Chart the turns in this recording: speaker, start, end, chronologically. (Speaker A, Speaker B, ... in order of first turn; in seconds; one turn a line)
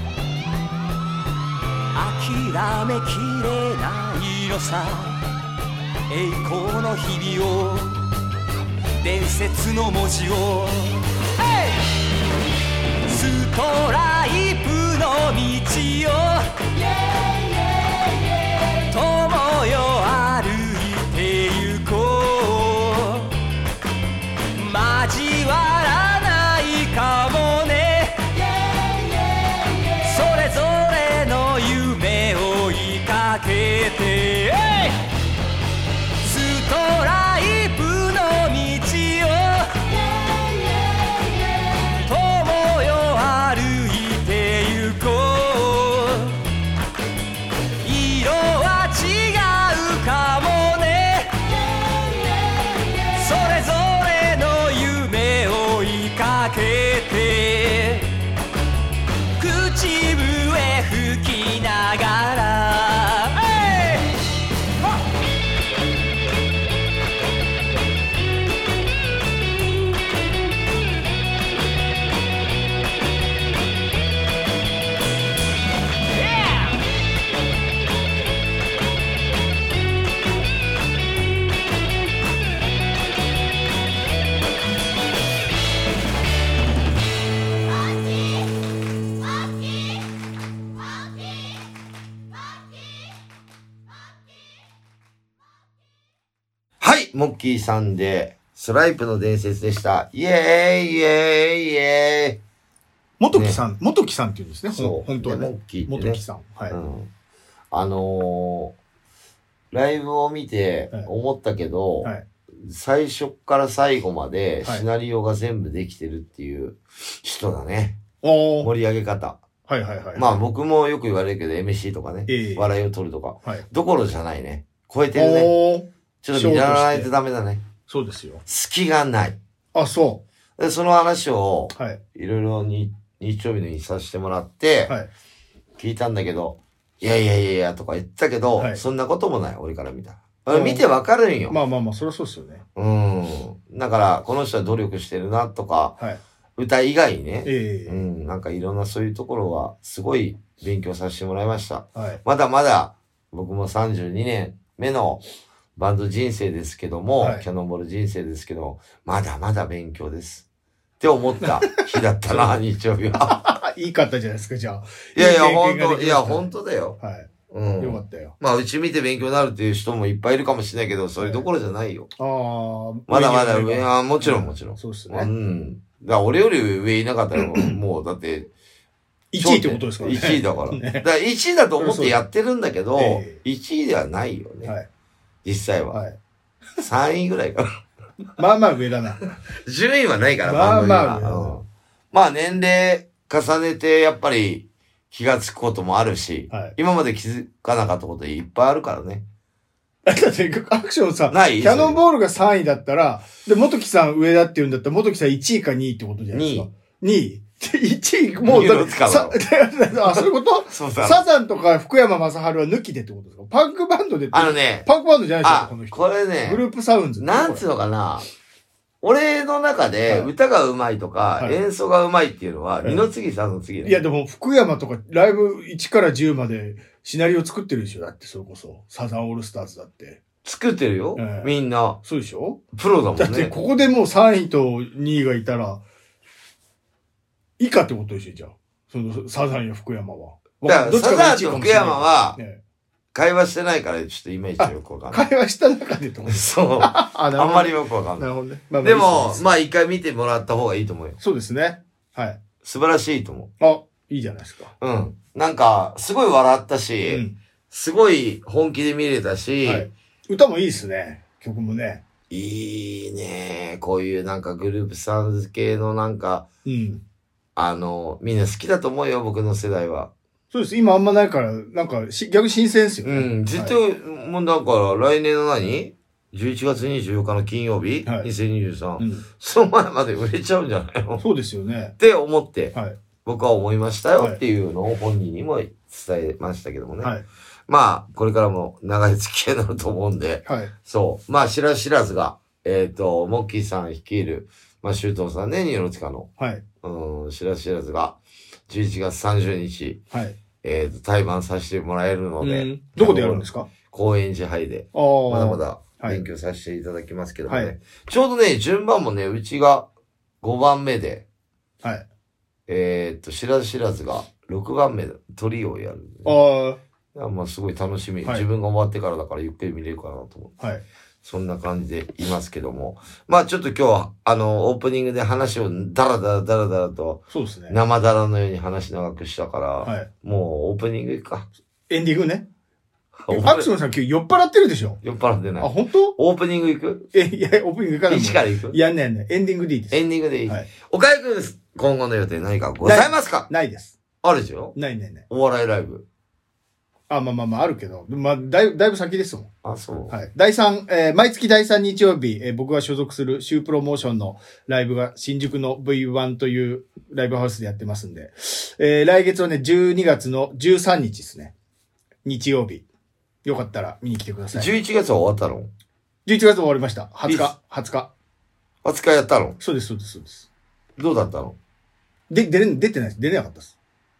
Speaker A: 1.9-5.2
Speaker A: 6.1-8.0
Speaker A: 9.0-11.8
Speaker A: 13.1-16.6
Speaker A: 17.1-17.8
Speaker A: 18.9-23.4
Speaker A: 24.5-35.0
Speaker A: 36.2-46.4
Speaker A: 47.8-58.1
Speaker A: 59.4-64.1
Speaker B: 96.8-102.4
Speaker C: 103.2-106.8
Speaker B: 103.3-103.6
Speaker B: 104.7-107.1
Speaker B: 107.7-108.7
Speaker B: 109.7-118.0
Speaker C: 118.2-118.7
Speaker B: 118.6-119.4
Speaker C: 119.7-120.4
Speaker B: 120.2-125.5
Speaker C: 122.3-122.7
Speaker C: 125.1-127.1
Speaker B: 126.2-127.6
Speaker C: 127.9-128.4
Speaker B: 128.4-129.4
Speaker C: 129.7-130.2
Speaker B: 130.6-134.9
Speaker C: 131.7-132.0
Speaker B: 135.8-141.6
Speaker C: 138.6-138.8
Speaker C: 140.5-140.8
Speaker C: 141.5-142.6
Speaker B: 142.8-146.0
Speaker B: 146.6-155.2
Speaker C: 147.4-148.1
Speaker C: 151.9-152.2
Speaker B: 155.8-160.4
Speaker C: 157.2-157.4
Speaker B: 161.0-163.4
Speaker C: 161.4-162.5
Speaker C: 163.2-168.3
Speaker B: 165.2-167.0
Speaker B: 167.5-172.1
Speaker C: 171.2-171.4
Speaker C: 172.2-175.3
Speaker B: 173.1-178.5
Speaker C: 177.4-177.8
Speaker C: 179.3-181.1
Speaker B: 179.4-184.7
Speaker C: 181.8-182.2
Speaker C: 183.0-183.4
Speaker B: 185.4-186.0
Speaker C: 185.9-186.2
Speaker B: 186.8-187.7
Speaker C: 188.3-189.3
Speaker B: 189.6-199.2
Speaker C: 190.4-191.6
Speaker C: 196.5-196.8
Speaker C: 200.1-217.6
Speaker B: 201.3-202.0
Speaker B: 206.3-206.7
Speaker B: 208.4-209.4
Speaker B: 210.1-211.2
Speaker B: 214.3-214.9
Speaker B: 215.4-216.6
Speaker B: 217.2-218.2
Speaker B: 219.0-224.0
Speaker C: 223.8-230.2
Speaker B: 230.4-232.0
Speaker C: 231.2-232.6
Speaker B: 232.7-233.5
Speaker C: 233.1-235.8
Speaker C: 237.6-242.6
Speaker B: 240.6-242.4
Speaker B: 243.1-245.2
Speaker C: 244.6-249.5
Speaker B: 246.3-248.3
Speaker B: 248.8-251.2
Speaker C: 251.2-252.4
Speaker B: 252.6-253.5
Speaker C: 253.6-254.7
Speaker B: 254.8-259.9
Speaker C: 257.1-257.4
Speaker C: 259.6-262.0
Speaker B: 262.3-266.4
Speaker C: 266.6-267.0
Speaker B: 267.6-270.1
Speaker C: 270.5-273.8
Speaker B: 273.0-281.2
Speaker C: 279.0-279.2
Speaker C: 281.2-281.9
Speaker B: 282.0-287.1
Speaker B: 287.7-296.3
Speaker C: 290.4-290.7
Speaker C: 296.4-296.6
Speaker B: 296.8-300.0
Speaker C: 300.1-300.4
Speaker B: 300.6-309.9
Speaker C: 302.4-303.7
Speaker C: 304.9-306.2
Speaker C: 307.5-307.7
Speaker B: 310.4-311.2
Speaker B: 312.7-316.4
Speaker C: 316.2-316.8
Speaker B: 317.1-320.5
Speaker B: 321.2-331.5
Speaker C: 327.3-327.8
Speaker C: 329.8-330.1
Speaker C: 331.9-332.4
Speaker B: 333.1-333.7
Speaker C: 333.3-335.0
Speaker B: 335.0-337.1
Speaker C: 335.6-336.1
Speaker C: 337.1-340.7
Speaker B: 338.1-338.8
Speaker B: 339.9-343.5
Speaker C: 342.8-344.0
Speaker B: 344.2-344.8
Speaker C: 344.8-345.2
Speaker B: 345.3-346.0
Speaker C: 347.1-349.5
Speaker B: 349.6-350.2
Speaker C: 350.1-361.5
Speaker C: 362.2-362.8
Speaker C: 363.4-364.7
Speaker B: 364.5-365.7
Speaker C: 366.2-368.1
Speaker B: 367.2-367.5
Speaker B: 368.8-369.6
Speaker C: 369.6-370.5
Speaker B: 371.0-371.6
Speaker C: 372.3-373.7